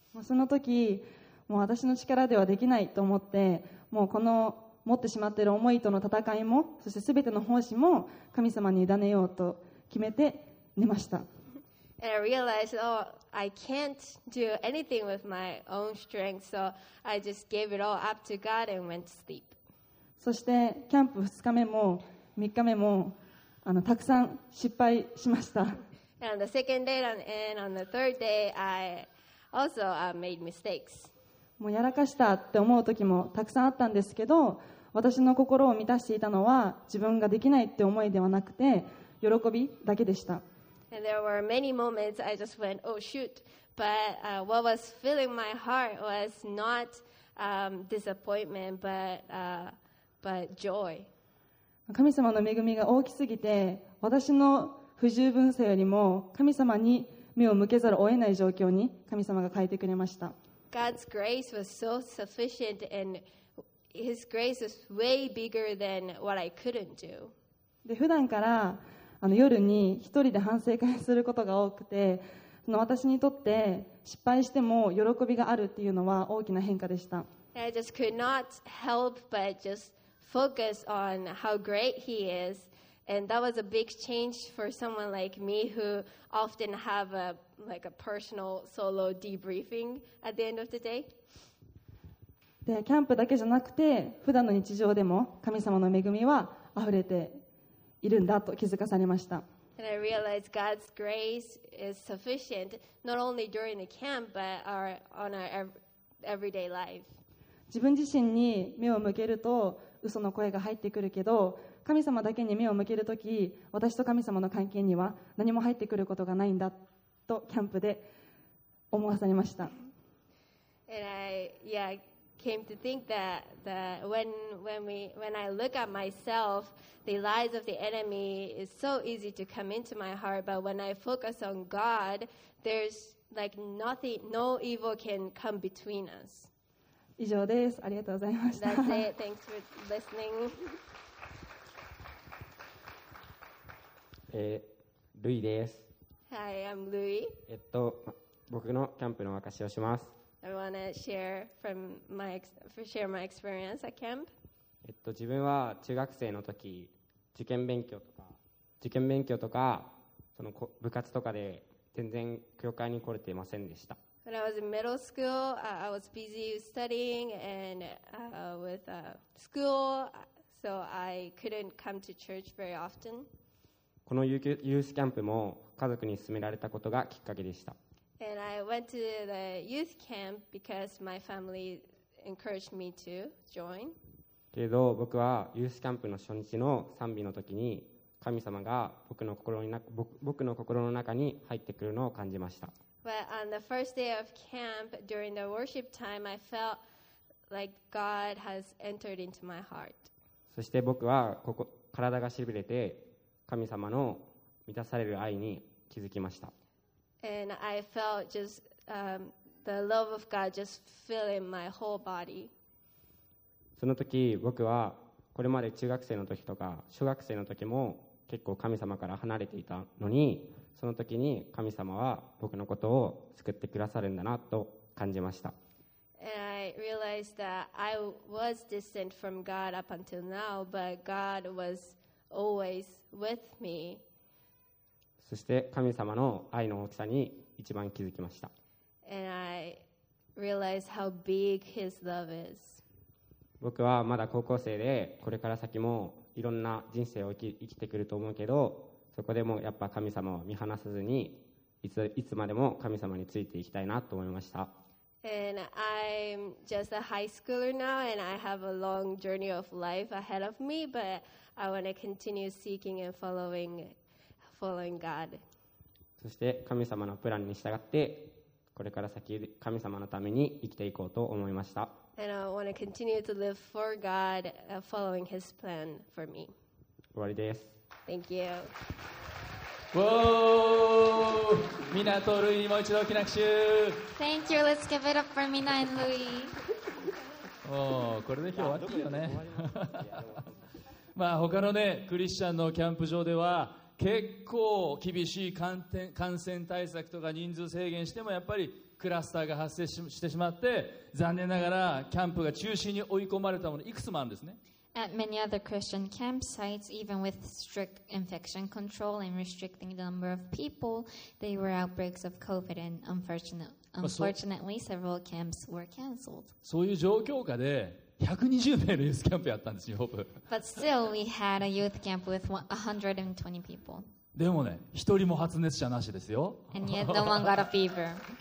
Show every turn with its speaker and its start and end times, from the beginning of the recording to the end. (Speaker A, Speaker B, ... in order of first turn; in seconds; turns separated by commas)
Speaker A: 0.1-11.3, Speaker B: 12.0-19.6, Speaker A: 20.2-25.8, Speaker B: 26.2-31.1, Speaker A: 31.6-40.4, Speaker B: 40.9-51.1, Speaker A: 51.9-60.3, Speaker B: 60.7-63.2, Speaker B: 63.9-67.3, Speaker A: 67.8-77.3, Speaker B: 77.5-91.1, Speaker A: 92.6-97.4, Speaker A: 98.0-99.4, Speaker B: 99.8-107.1, Speaker A: 107.7-118.1, Speaker A: 118.9-119.7, Speaker B: 120.9-136.5, Speaker A: 137.2-139.1, Speaker B: 138.5-140.8, Speaker C: 144.3-145.8, Speaker B: 146.3-147.4, Speaker C: 147.5-150.1, Speaker B: 150.4-154.3, Speaker C: 154.8-164.0, Speaker B: 164.2-173.3, Speaker C: 174.1-177.8, Speaker B: 178.2-183.9, Speaker C: 184.5-192.7, Speaker B: 193.0-196.8, Speaker B: 197.5-200.1, Speaker C: 200.5-206.5, Speaker B: 207.2-212.5, Speaker C: 213.8-225.5, Speaker B: 226.2-234.0, Speaker C: 235.2-238.5, Speaker B: 239.0-239.8, Speaker B: 240.3-242.8, Speaker C: 243.6-254.7, Speaker B: 255.2-263.9, Speaker B: 264.5-265.4, Speaker C: 266.2-271.9, Speaker B: 272.2-276.5, Speaker C: 277.1-277.7, Speaker B: 278.1-278.7, Speaker D: 279.9-284.0, Speaker E: 284.1-286.5, Speaker D: 287.6-290.2, Speaker C: 288.5-290.5, Speaker D: 291.1-304.6, Speaker E: 304.9-316.5, Speaker D: 314.0-314.4, Speaker D: 316.6-320.4, Speaker E: 320.5-324.1, Speaker D: 324.3-327.5, Speaker E: 326.7-328.2